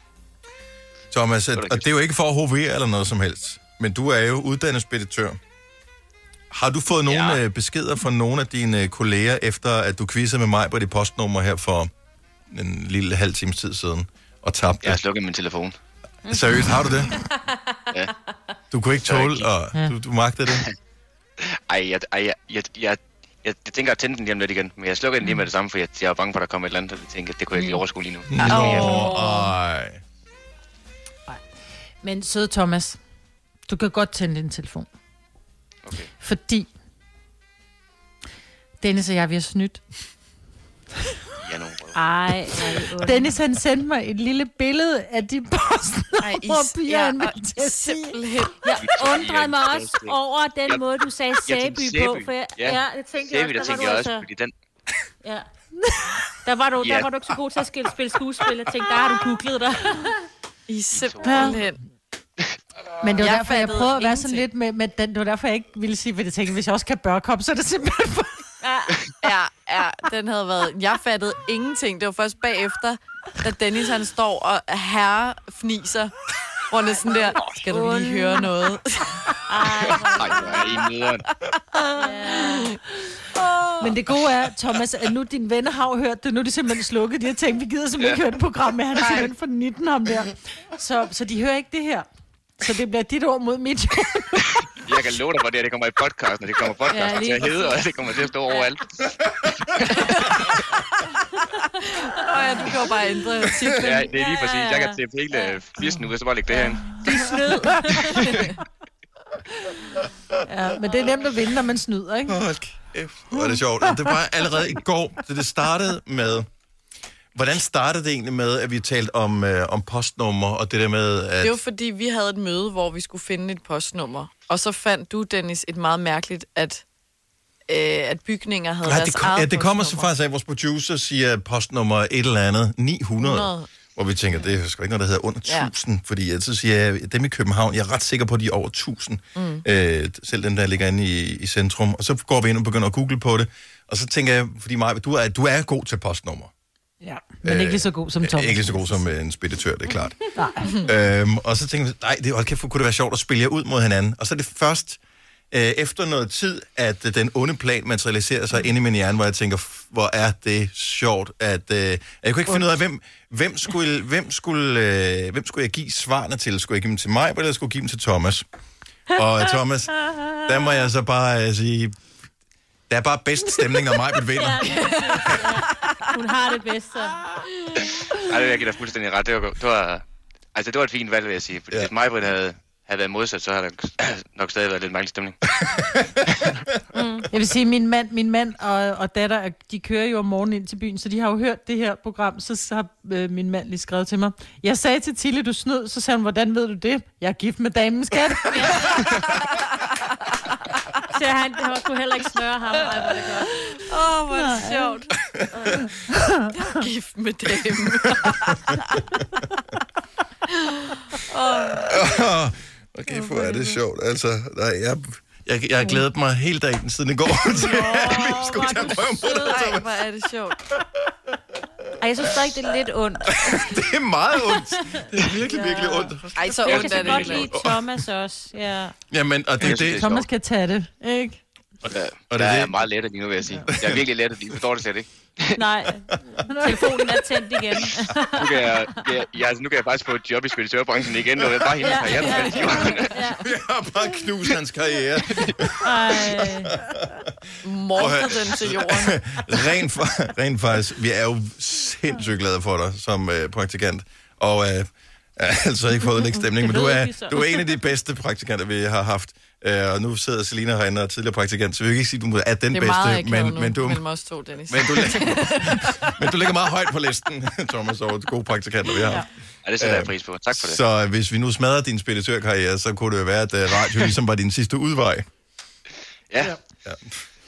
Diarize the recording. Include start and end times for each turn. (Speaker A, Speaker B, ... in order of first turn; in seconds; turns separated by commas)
Speaker A: 1.1-5.4, Speaker B: 1.6-1.8, Speaker A: 6.5-11.9, Speaker B: 7.1-7.4, Speaker A: 12.5-15.0, Speaker B: 14.8-15.8, Speaker A: 16.3-17.2, Speaker C: 16.3-17.5, Speaker A: 18.7-20.6, Speaker B: 19.0-19.5, Speaker B: 20.5-20.7, Speaker B: 21.4-29.0, Speaker A: 28.3-30.0, Speaker D: 28.5-29.1, Speaker E: 32.0-33.0, Speaker E: 33.7-34.9, Speaker E: 36.2-36.7, Speaker E: 38.8-39.8, Speaker B: 41.4-42.0, Speaker C: 42.0-43.4, Speaker E: 43.0-48.2, Speaker D: 46.2-48.7, Speaker C: 48.6-54.3, Speaker B: 48.8-50.1, Speaker B: 51.5-54.5, Speaker C: 56.4-60.2, Speaker B: 56.8-57.1, Speaker D: 60.7-61.8, Speaker B: 61.0-61.5, Speaker E: 61.2-61.6, Speaker E: 63.0-68.4, Speaker D: 63.2-64.5, Speaker C: 68.6-69.0, Speaker D: 69.2-76.1, Speaker D: 76.7-79.2, Speaker C: 77.0-78.5, Speaker C: 79.5-80.9, Speaker B: 80.0-81.2, Speaker C: 81.8-82.8, Speaker D: 82.3-82.7, Speaker D: 83.3-83.9, Speaker E: 83.8-92.1, Speaker D: 89.0-89.3, Speaker E: 92.6-94.7, Speaker B: 94.8-99.1, Speaker C: 96.9-97.8, Speaker B: 99.7-100.3, Speaker D: 99.9-100.3, Speaker D: 102.0-104.1, Speaker B: 103.7-106.9, Speaker C: 104.1-105.6, Speaker C: 106.5-108.5, Speaker E: 110.5-112.4, Speaker A: 112.3-116.5, Speaker A: 117.3-121.6, Speaker D: 121.4-126.8, Speaker D: 127.7-130.1, Speaker A: 128.8-146.5, Speaker D: 133.2-133.7, Speaker D: 139.3-139.6, Speaker E: 147.0-149.1, Speaker A: 147.4-150.2, Speaker E: 150.4-150.7, Speaker A: 150.8-155.0, Speaker A: 155.5-168.4, Speaker A: 169.1-172.0, Speaker A: 172.9-175.4, Speaker C: 174.3-177.5, Speaker D: 174.7-175.4, Speaker B: 178.2-185.4, Speaker A: 185.6-186.7, Speaker C: 186.9-187.3, Speaker E: 187.3-198.9, Speaker C: 198.5-199.2, Speaker C: 201.1-203.6, Speaker D: 202.8-205.1, Speaker E: 204.3-204.9, Speaker E: 206.1-206.5, Speaker D: 206.5-209.0, Speaker D: 210.6-212.0, Speaker A: 211.8-219.9, Speaker C: 217.5-219.7, Speaker D: 219.2-220.6, Speaker C: 222.0-223.6, Speaker A: 223.3-227.9, Speaker C: 224.4-228.9, Speaker D: 226.4-227.5, Speaker A: 229.1-230.3, Speaker B: 229.6-230.2, Speaker E: 229.7-231.4, Speaker B: 231.9-235.6, Speaker A: 232.3-232.9, Speaker A: 233.7-234.1, Speaker C: 235.6-238.9, Speaker E: 236.5-237.2, Speaker B: 238.4-243.1, Speaker A: 241.4-242.1, Speaker C: 241.8-243.4, Speaker D: 242.3-243.0, Speaker A: 243.4-247.3, Speaker B: 245.3-245.6, Speaker C: 245.8-246.7, Speaker D: 247.6-249.4, Speaker A: 247.9-264.0, Speaker C: 256.5-257.7, Speaker D: 262.7-266.1, Speaker A: 264.7-269.2, Speaker B: 269.6-270.8, Speaker A: 269.8-275.3, Speaker A: 276.8-277.2